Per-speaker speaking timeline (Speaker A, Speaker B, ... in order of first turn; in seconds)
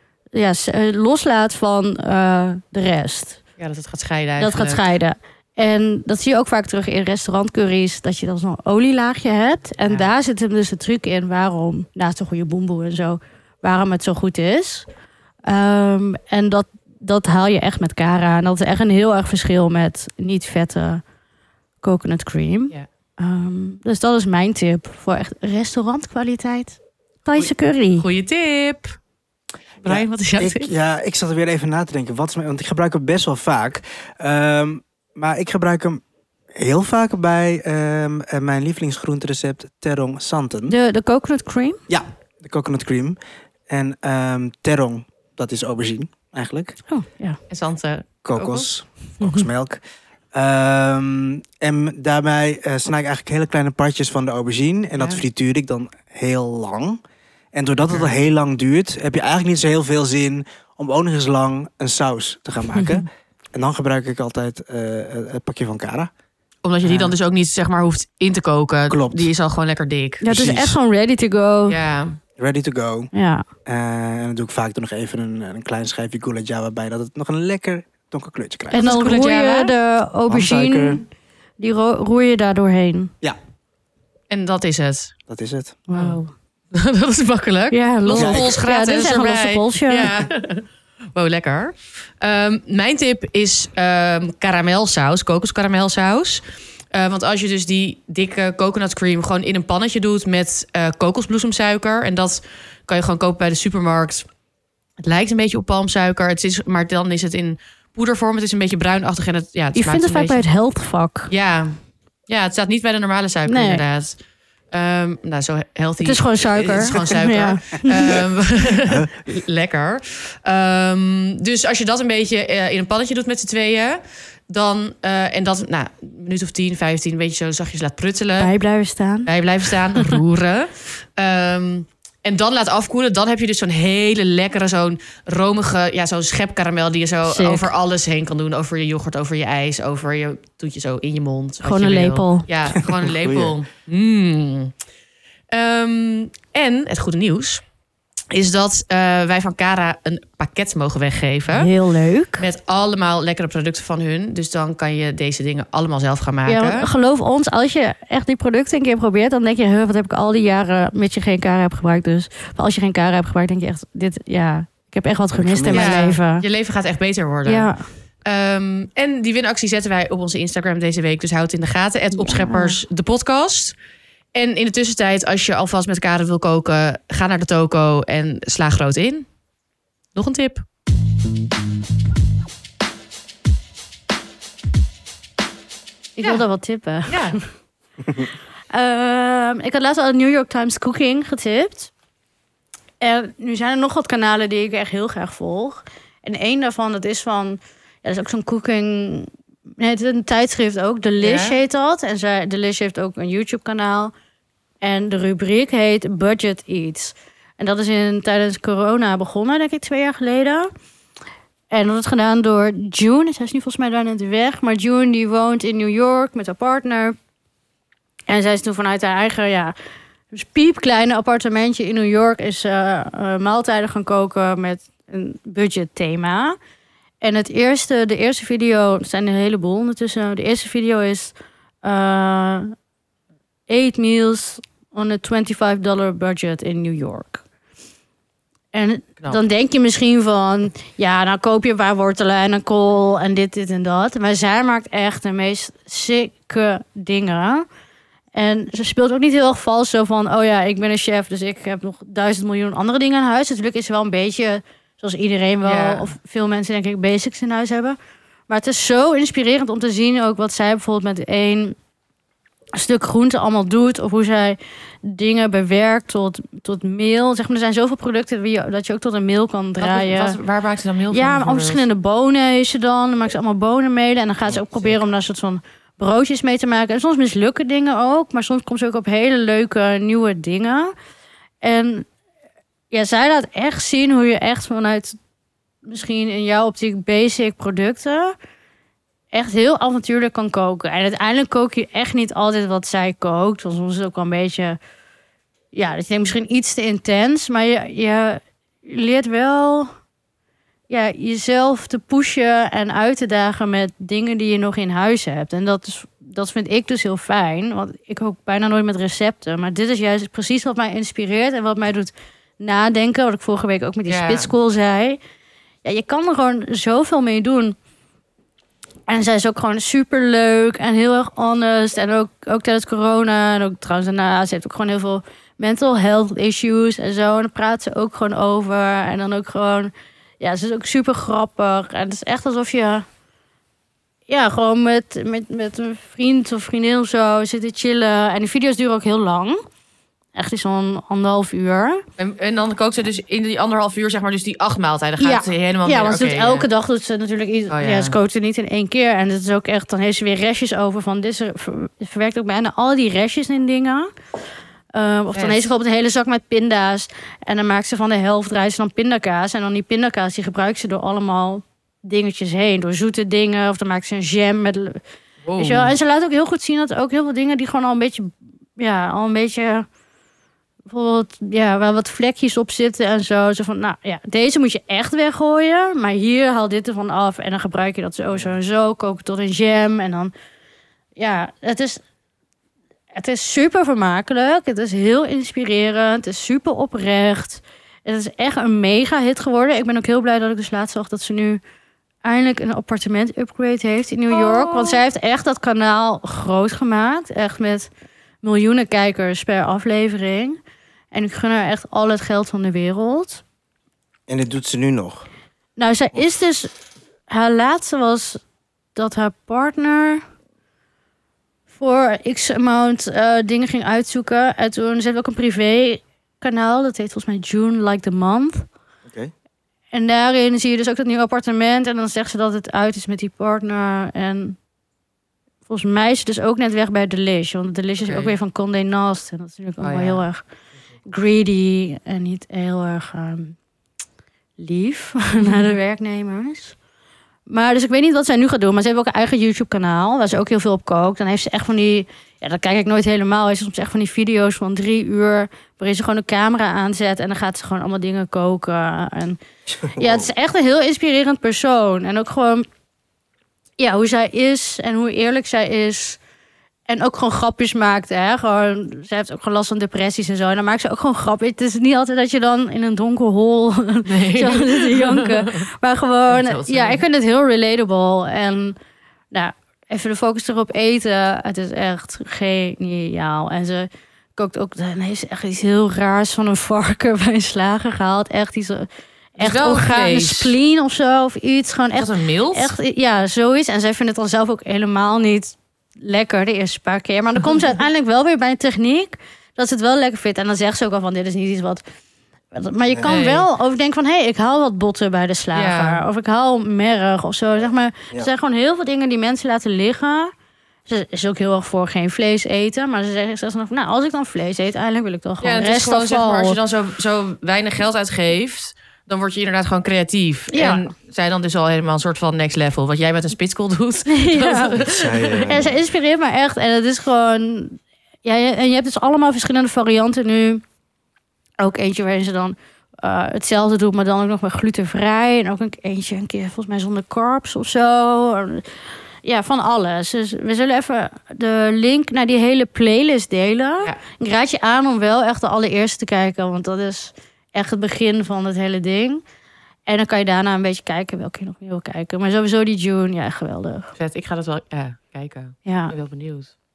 Speaker A: 0.3-3.4, 4.4-14.9, 15.4-21.0, 21.8-28.1, 40.7-41.8, 46.9-47.4, 49.2-49.5, 62.7-63.0, 70.2-71.8, 73.1-73.5, 78.7-81.0, 81.6-83.1, 85.9-86.3, 87.7-90.2, 109.7-111.3, 113.5-113.8, 116.0-118.2, 128.4-130.2, 137.3-137.7, 141.6-142.5, 151.5-152.4, 156.5-166.4, 167.4-167.8, 172.1-172.8, 186.2-187.4, 188.7-191.9, 193.0-204.1, 204.8-210.7, 211.7-217.2, 218.3-219.7, 220.3-226.6, 227.2-232.7, 233.7-237.4, 238.7-247.7, 248.3-258.0, 258.5-261.8, 262.7-270.4, 271.1-280.9, 281.6-282.1, 282.9-285.2, 285.8-288.3, 289.3-294.8, 295.7-299.9, 300.9-315.2, 315.8-317.8, 319.1-333.0, 334.3-339.6, 340.3-342.0, 345.2-354.1, 354.9-365.0, 365.6-369.9, 370.9-380.3, 381.2-382.0, 383.1-391.6, 392.2-397.9, 398.4-400.6, 401.1-403.4, 405.8-406.7, 407.3-408.4, 408.9-410.2, 411.7-418.7, 419.9-424.6, 425.6-430.4, 431.1-433.6, 434.6-436.7, 437.5-449.4, 449.9-452.6, 453.8-456.2, 456.9-468.8, 469.3-491.8, 492.5-500.3, 500.9-506.6, 510.5-510.9, 514.1-514.7, 515.4-520.6, 521.6-528.6, 529.2-539.2, 539.9-543.9, 545.6-545.9
Speaker B: 3.6-4.8, 27.3-29.0, 29.8-30.7, 47.5-48.7, 66.6-70.2, 71.7-72.2, 78.7-79.7, 84.3-85.1, 85.9-86.2, 86.7-104.3, 105.0-110.4, 111.3-114.2, 114.7-128.5, 129.2-144.7, 145.5-147.6, 148.3-151.7, 152.4-156.9, 165.7-167.7, 168.2-173.8, 174.3-179.3, 180.1-180.6, 187.1-187.4, 201.2-201.6, 255.6-256.1, 269.8-271.8, 314.1-314.5, 342.2-346.6, 347.7-348.1, 355.3-355.7, 365.4-365.9, 428.0-428.3, 429.8-430.2, 435.4-435.7, 464.0-465.7, 466.3-467.0, 479.4-480.6, 481.9-482.7, 493.1-493.5, 495.5-496.0, 505.4-515.5, 544.0-546.5
Speaker C: 29.8-36.0, 36.5-40.8, 41.9-43.2, 43.7-46.8, 48.2-49.8, 50.3-57.0, 57.5-66.1, 66.8-67.1, 68.9-69.3, 70.3-70.8, 72.4-73.1, 73.7-78.8, 80.3-81.0, 85.3-85.8, 88.1-88.5, 118.8-119.1, 142.8-143.5, 165.3-166.1, 404.3-405.3, 449.8-450.3, 492.9-493.1, 514.8-515.8